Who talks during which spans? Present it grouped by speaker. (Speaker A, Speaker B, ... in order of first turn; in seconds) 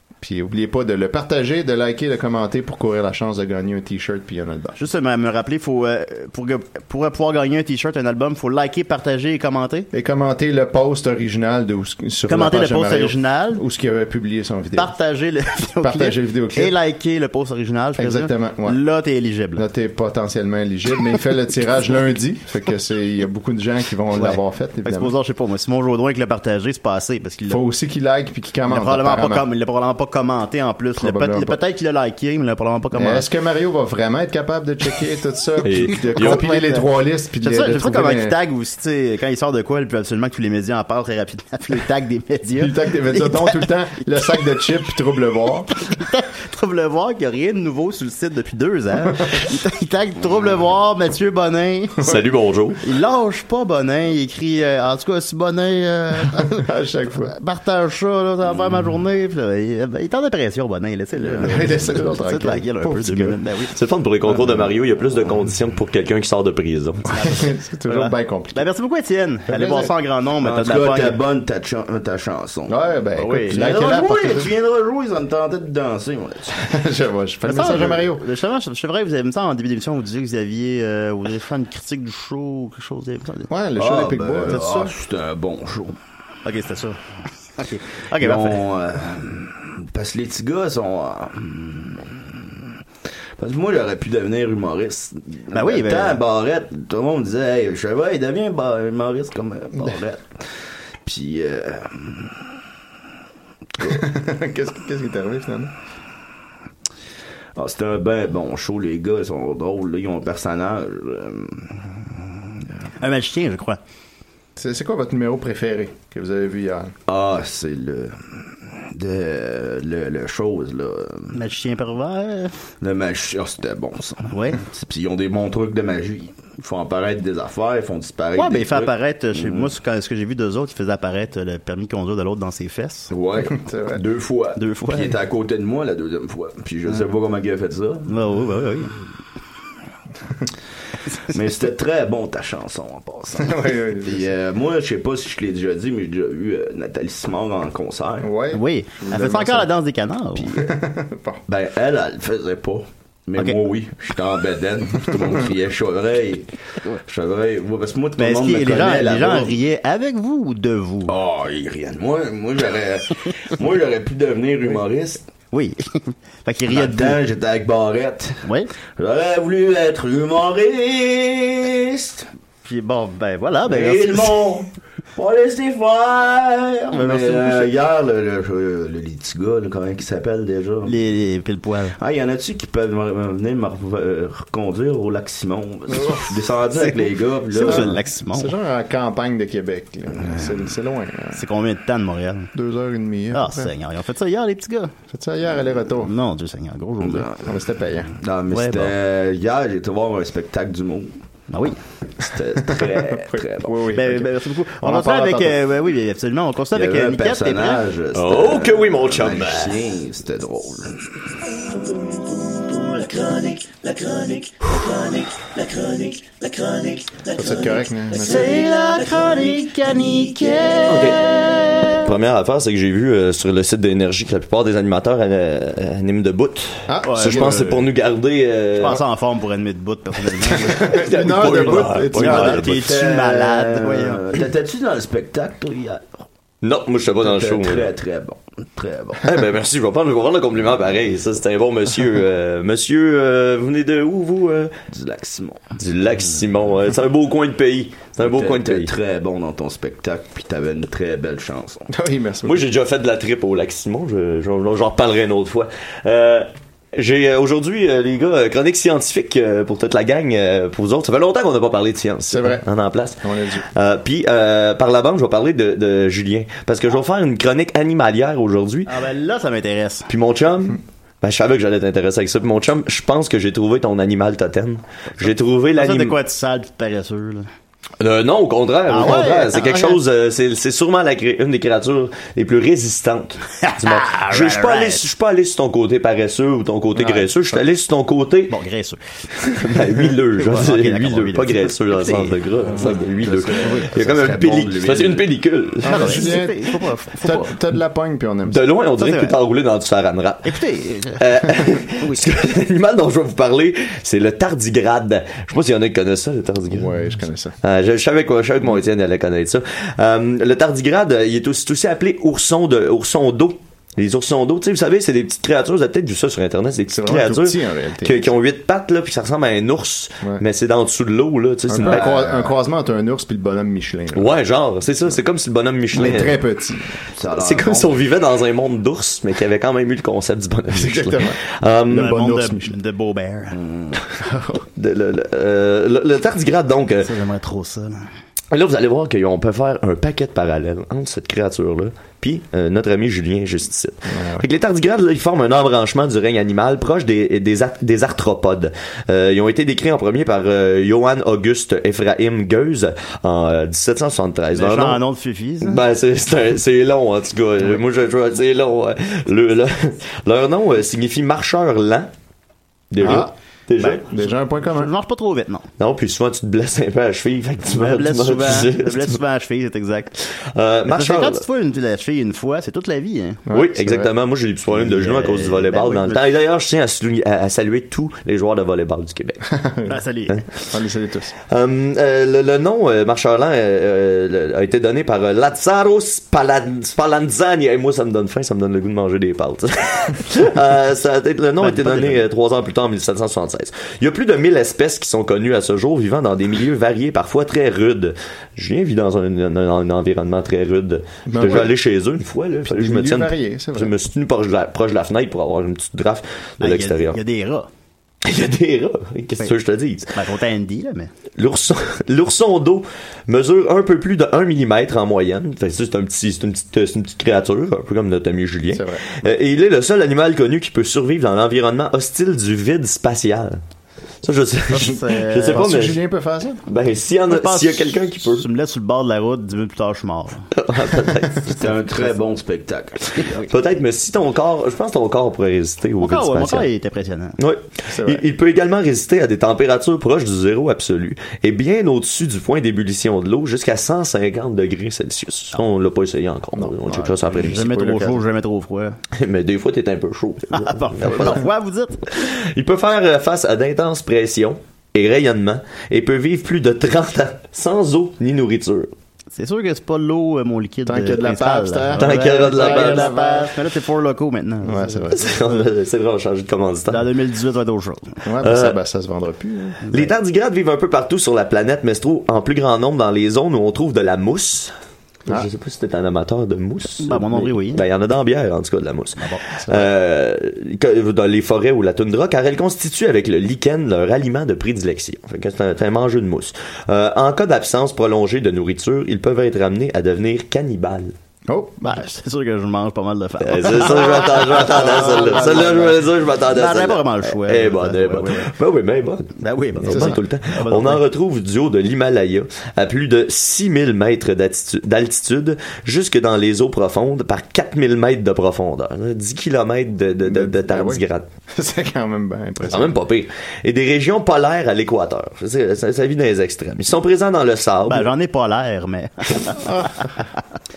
Speaker A: 0.2-4.8, 9.9-14.9, 15.8-16.8, 18.0-18.8, 19.6-25.1, 27.5-29.4, 31.0-31.6, 33.0-38.4, 42.6-45.7, 56.4-57.3, 61.2-63.4, 67.2-68.7, 69.5-69.9, 72.7-74.5, 76.6-78.2, 83.5-84.6, 103.8-105.7, 114.6-116.9, 133.5-134.0, 143.4-144.3, 148.2-149.7, 150.6-151.4, 185.9-186.4, 187.6-191.4, 192.5-193.7, 195.1-196.1, 197.4-198.1, 202.7-205.6, 217.3-218.5, 226.9-227.8, 230.7-232.6, 251.9-252.7, 262.3-262.6, 263.2-263.7, 295.8-298.6, 306.7-307.6, 316.9-318.3, 321.7-324.3, 325.9-326.9, 330.7-332.8, 334.3-334.6, 344.1-344.5, 363.0-363.3, 364.1-364.9, 373.5-374.1, 379.5-379.9, 380.7-381.4, 401.3-401.8, 402.7-403.9, 418.7-419.0, 425.4-426.6, 437.9-438.2, 446.5-448.2, 460.9-463.5, 464.6-465.6, 468.2-469.8, 479.6-479.9, 491.5-492.0, 494.6-496.0, 499.9-500.2, 510.2-513.0, 519.6-520.0
Speaker B: 4.8-9.9, 12.3-13.6, 14.8-19.6, 24.2-27.6, 28.7-33.3, 36.2-36.8, 37.4-44.4, 45.8-52.0, 52.8-63.7, 67.1-71.2, 73.2-73.7, 77.4-83.5, 84.5-84.9, 86.5-87.0, 87.6-88.6, 95.5-96.2, 113.0-113.8, 121.3-122.5, 124.3-124.6, 128.4-133.1, 134.6-135.2, 138.1-139.0, 148.5-150.5, 158.2-161.1, 165.5-167.2, 168.4-168.7, 172.7-174.4, 176.9-177.7, 180.8-182.0, 186.8-188.5, 191.3-192.5, 193.3-194.9, 196.0-197.3, 198.5-198.9, 201.5-201.8, 203.9-207.8, 217.4-222.1, 227.0-227.7, 228.8-231.0, 231.6-234.2, 268.9-270.1, 275.2-277.5, 278.9-280.0, 283.6-285.1, 287.0-287.3, 288.5-292.4, 293.6-293.9, 295.9-297.5, 299.0-299.4, 300.4-301.3, 302.0-302.3, 331.9-333.6, 337.0-338.1, 354.5-355.8, 363.8-365.7, 367.7-370.1, 370.9-373.4, 374.7-376.2, 379.9-380.4, 391.6-392.2, 406.6-407.7, 410.1-411.1, 424.7-425.7, 427.3-430.4, 433.2-433.5, 436.0-437.4, 447.5-449.0, 450.5-452.1, 459.3-465.1, 466.9-468.1, 469.9-470.1, 477.0-477.8, 479.2-479.4, 491.8-495.9, 496.5-498.5, 499.4-501.0, 517.9-519.6
Speaker C: 35.6-36.4, 52.0-52.8, 63.7-67.1, 208.1-209.8, 220.9-221.2, 222.0-229.0, 230.7-232.9, 236.6-237.9, 239.2-244.7, 245.8-248.9, 252.4-263.2, 263.7-268.9, 270.1-276.2, 278.0-288.6, 289.5-296.4, 298.5-300.5, 301.2-306.9, 307.6-322.1, 324.1-326.4, 327.4-332.2, 334.8-337.1, 338.5-355.0, 355.6-362.1, 362.9-364.1, 365.8-369.2, 370.4-371.4, 373.5-379.5, 381.5-407.2, 408.2-410.2, 411.4-423.6, 424.2-426.0, 426.7-428.5, 430.6-431.7, 433.4-436.7, 437.4-447.7, 449.2-451.4, 452.1-458.9, 462.0-463.1, 465.1-467.1, 468.4-468.8, 469.9-474.7, 475.3-491.1, 493.4-511.3, 512.7-518.1
Speaker D: 70.4-72.8, 73.5-76.6, 83.8-86.0, 88.2-92.7, 93.4-102.4, 107.6-112.3, 117.1-121.4, 122.8-129.7, 133.1-138.1, 141.3-148.3, 150.4-150.7, 151.5-156.5, 157.0-159.6, 161.1-165.3, 166.7-168.5, 169.0-172.3, 173.7-180.9, 182.0-188.0, 190.2-190.5, 197.0-201.2, 202.2-203.8, 206.7-211.3, 232.6-236.2, 237.2-239.3, 244.9-245.7, 248.2-251.9, 292.6-295.3, 321.8-322.2, 327.2-328.0, 333.5-334.0, 431.6-433.3